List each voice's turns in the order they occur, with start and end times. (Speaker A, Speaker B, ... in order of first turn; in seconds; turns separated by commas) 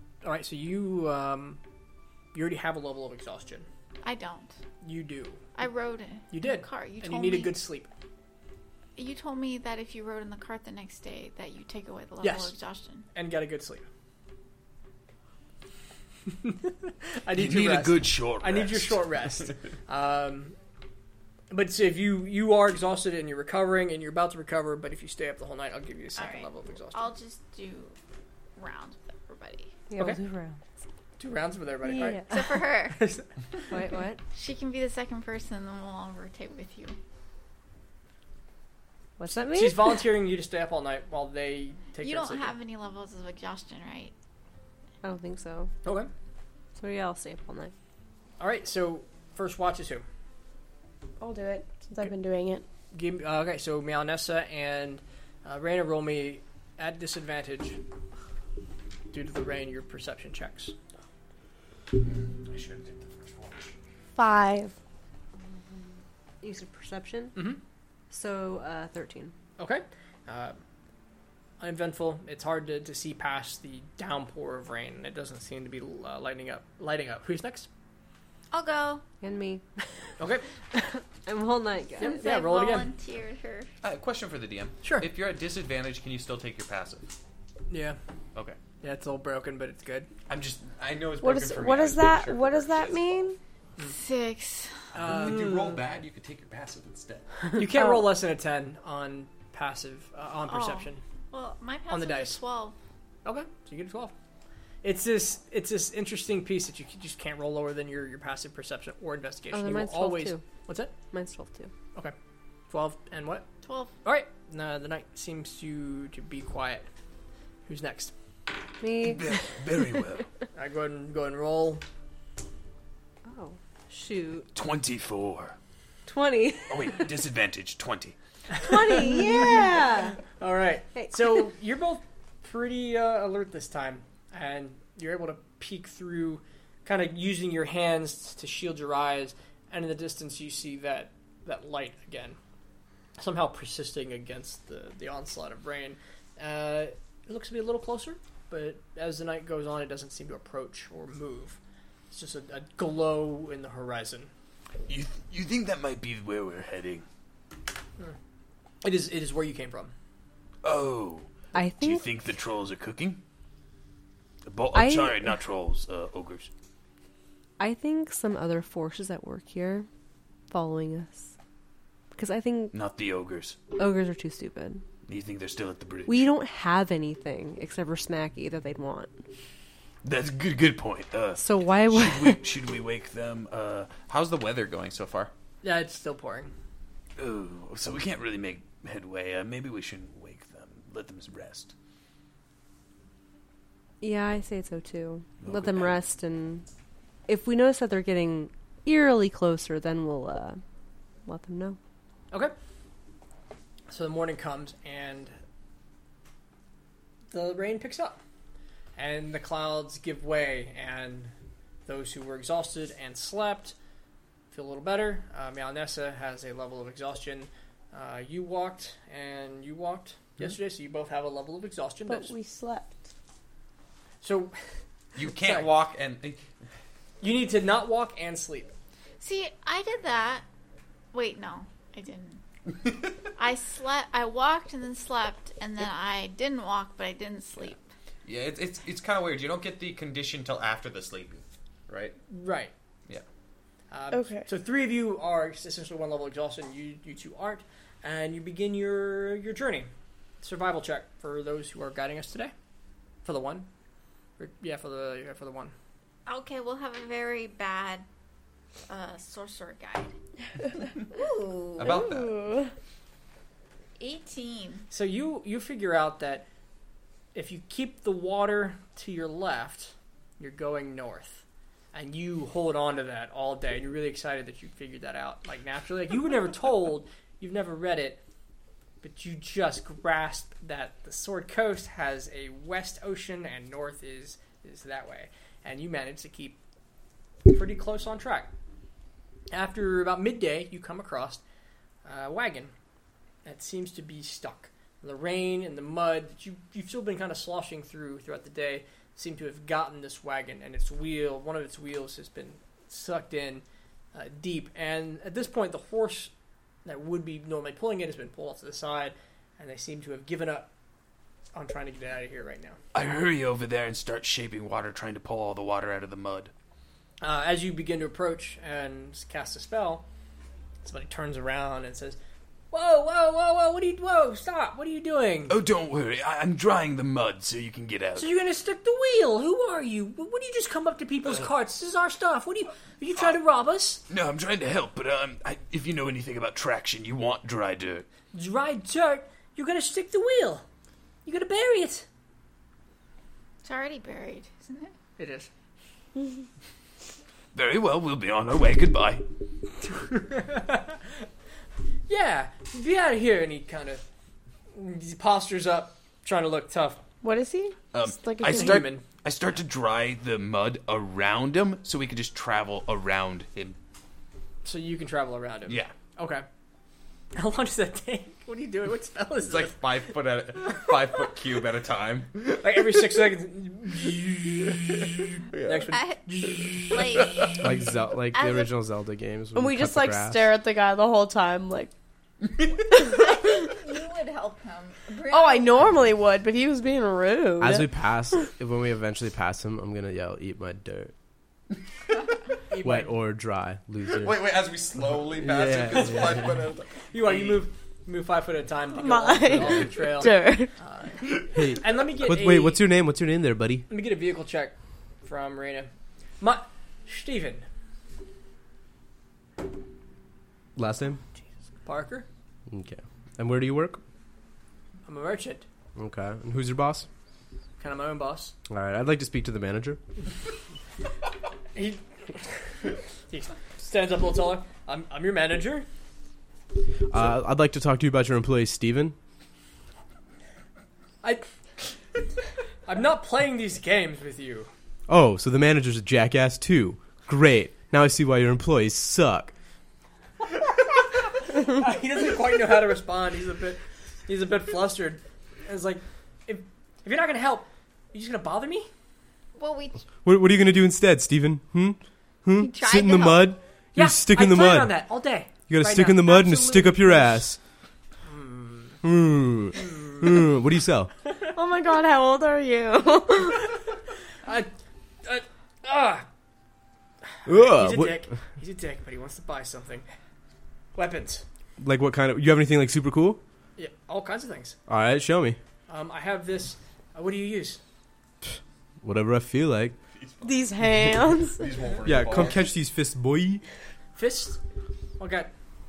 Speaker A: 0.2-1.6, Speaker A: 2.3-3.7, Speaker B: 4.0-4.6, Speaker A: 4.8-5.4, Speaker B: 5.6-7.5, Speaker A: 6.3-7.9, Speaker B: 9.0-13.1, Speaker A: 12.2-12.5, Speaker A: 13.1-13.9, Speaker A: 16.3-20.6, Speaker C: 17.3-19.2, Speaker A: 21.5-27.1, Speaker B: 26.2-28.0, Speaker B: 28.6-29.7, Speaker D: 29.9-30.6, Speaker A: 31.2-32.2, Speaker D: 31.8-32.7, Speaker B: 32.3-33.0, Speaker A: 32.9-33.3, Speaker D: 33.7-34.2, Speaker B: 34.3-37.0, Speaker D: 39.2-40.0, Speaker A: 39.5-42.5, Speaker B: 42.0-44.1, Speaker D: 45.0-45.7, Speaker A: 45.8-46.1, Speaker D: 46.8-47.7, Speaker A: 48.4-50.0, Speaker E: 51.2-52.6, Speaker A: 52.9-57.8, Speaker A: 59.1-60.8, Speaker F: 62.2-63.7, Speaker E: 64.2-64.7, Speaker D: 66.4-67.4, Speaker D: 68.1-69.3, Speaker A: 69.6-70.6, Speaker A: 71.6-77.7, Speaker B: 78.5-79.0, Speaker D: 79.2-79.7, Speaker A: 80.2-80.4, Speaker D: 80.7-82.4, Speaker B: 82.0-83.7, Speaker A: 82.2-82.9, Speaker F: 83.8-87.1, Speaker A: 84.8-85.1, Speaker A: 87.7-88.0, Speaker F: 88.3-88.6, Speaker A: 88.6-90.1, Speaker F: 90.3-93.1, Speaker E: 91.2-93.4, Speaker B: 93.9-94.9, Speaker F: 94.9-97.3, Speaker A: 95.0-95.8, Speaker A: 97.5-101.0, Speaker B: 100.5-102.8, Speaker A: 101.9-102.4, Speaker A: 103.2-104.1, Speaker A: 104.8-110.9, Speaker D: 109.5-110.5, Speaker D: 111.1-111.7, Speaker A: 112.7-113.5, Speaker B: 113.6-113.9, Speaker A: 114.0-116.9, Speaker A: 117.7-118.1, Speaker D: 118.8-119.6, Speaker C: 119.0-120.2, Speaker A: 120.5-121.8, Speaker D: 123.3-124.5, Speaker C: 124.5-125.5, Speaker D: 126.1-127.1, Speaker C: 126.7-128.2, Speaker A: 128.5-142.4, Speaker D: 128.6-130.2, Speaker D: 130.9-131.4, Speaker A: 143.2-151.6, Speaker A: 152.1-154.3, Speaker C: 154.9-157.1, Speaker A: 158.8-159.9, Speaker C: 160.6-163.2, Speaker D: 161.5-162.1, Speaker C: 164.5-166.5, Speaker D: 164.7-165.4, Speaker D: 167.6-169.9, Speaker D: 170.5-171.3, Speaker D: 172.1-172.7, Speaker C: 172.7-173.6, Speaker D: 173.7-174.8, Speaker C: 175.1-176.3, Speaker D: 176.1-179.1, Speaker C: 180.0-184.0, Speaker D: 181.4-182.4, Speaker F: 184.0-185.3, Speaker A: 185.6-186.5, Speaker C: 187.2-191.7, Speaker D: 194.0-196.7, Speaker C: 195.4-196.0, Speaker D: 197.3-200.6, Speaker D: 201.3-201.8, Speaker A: 203.9-205.4, Speaker A: 207.3-208.2, Speaker A: 209.0-211.3, Speaker A: 211.9-213.8, Speaker A: 214.5-222.3, Speaker E: 222.1-223.0, Speaker A: 224.2-224.6, Speaker F: 225.2-226.4, Speaker A: 225.2-225.7, Speaker A: 227.2-228.7, Speaker B: 229.2-230.4, Speaker B: 231.1-232.4, Speaker B: 233.3-237.8, Speaker F: 238.2-242.2, Speaker A: 242.3-242.7, Speaker A: 243.9-249.9, Speaker E: 244.1-244.5, Speaker A: 250.4-252.5, Speaker A: 253.2-253.7, Speaker A: 254.4-255.7, Speaker B: 256.3-258.1, Speaker B: 258.9-260.1, Speaker B: 261.1-262.0, Speaker F: 261.8-262.5, Speaker E: 261.8-262.7, Speaker B: 264.0-264.9, Speaker A: 264.9-266.4, Speaker A: 267.4-278.2, Speaker A: 279.0-286.6, Speaker A: 287.5-288.5, Speaker A: 289.5-291.4, Speaker A: 292.1-292.7, Speaker A: 293.4-306.3, Speaker A: 306.9-310.7, Speaker A: 311.5-312.8, Speaker C: 312.9-316.5, Speaker A: 317.2-320.1, Speaker A: 320.8-322.2, Speaker A: 322.7-325.6, Speaker C: 325.5-328.3, Speaker A: 328.2-334.0, Speaker C: 334.1-338.1, Speaker A: 338.3-340.7, Speaker A: 341.3-342.1, Speaker B: 343.6-344.9, Speaker A: 345.2-345.5, Speaker C: 347.5-349.2, Speaker A: 350.1-351.0, Speaker A: 352.1-354.1, Speaker A: 354.7-357.0, Speaker E: 357.2-358.9, Speaker C: 357.9-363.8, Speaker A: 358.4-359.1, Speaker A: 364.6-366.4, Speaker C: 365.7-365.9, Speaker A: 367.4-369.9, Speaker F: 369.4-372.6, Speaker A: 372.6-375.0, Speaker F: 375.5-375.9, Speaker A: 375.6-377.3, Speaker B: 375.9-377.7, Speaker G: 377.6-380.5, Speaker B: 378.3-378.7, Speaker E: 379.6-381.9, Speaker B: 383.0-385.9, Speaker E: 385.3-387.9, Speaker G: 387.6-391.1, Speaker A: 392.7-393.1, Speaker G: 392.8-394.4, Speaker F: 394.0-397.6, Speaker G: 395.4-396.5, Speaker A: 395.9-396.4, Speaker A: 397.1-402.8, Speaker E: 398.9-400.7, Speaker G: 401.5-403.9, Speaker A: 403.9-407.6, Speaker G: 410.8-411.2, Speaker A: 411.9-412.3, Speaker G: 412.7-414.0, Speaker A: 415.1-415.6, Speaker G: 416.0-417.1, Speaker A: 417.8-418.5, Speaker G: 418.7-420.0, Speaker A: 421.8-425.9, Speaker G: 427.1-429.2, Speaker A: 432.9-434.7, Speaker G: 435.1-439.5, Speaker A: 441.5-448.9, Speaker B: 449.6-450.0, Speaker G: 450.2-455.0, Speaker B: 452.6-453.5, Speaker A: 453.9-457.4, Speaker G: 455.7-457.6, Speaker A: 458.2-459.0, Speaker G: 459.0-461.1, Speaker A: 459.8-460.3, Speaker E: 461.5-463.7, Speaker A: 464.4-464.7, Speaker A: 465.2-466.3, Speaker A: 467.3-470.1, Speaker G: 467.5-468.3, Speaker A: 470.9-471.4, Speaker G: 471.8-473.4, Speaker A: 473.8-474.8, Speaker G: 474.9-475.6, Speaker A: 475.9-477.8, Speaker G: 479.0-480.0, Speaker F: 480.1-480.7, Speaker E: 480.4-481.7, Speaker F: 481.5-482.7, Speaker G: 482.0-483.6, Speaker A: 484.1-484.6, Speaker A: 485.2-485.5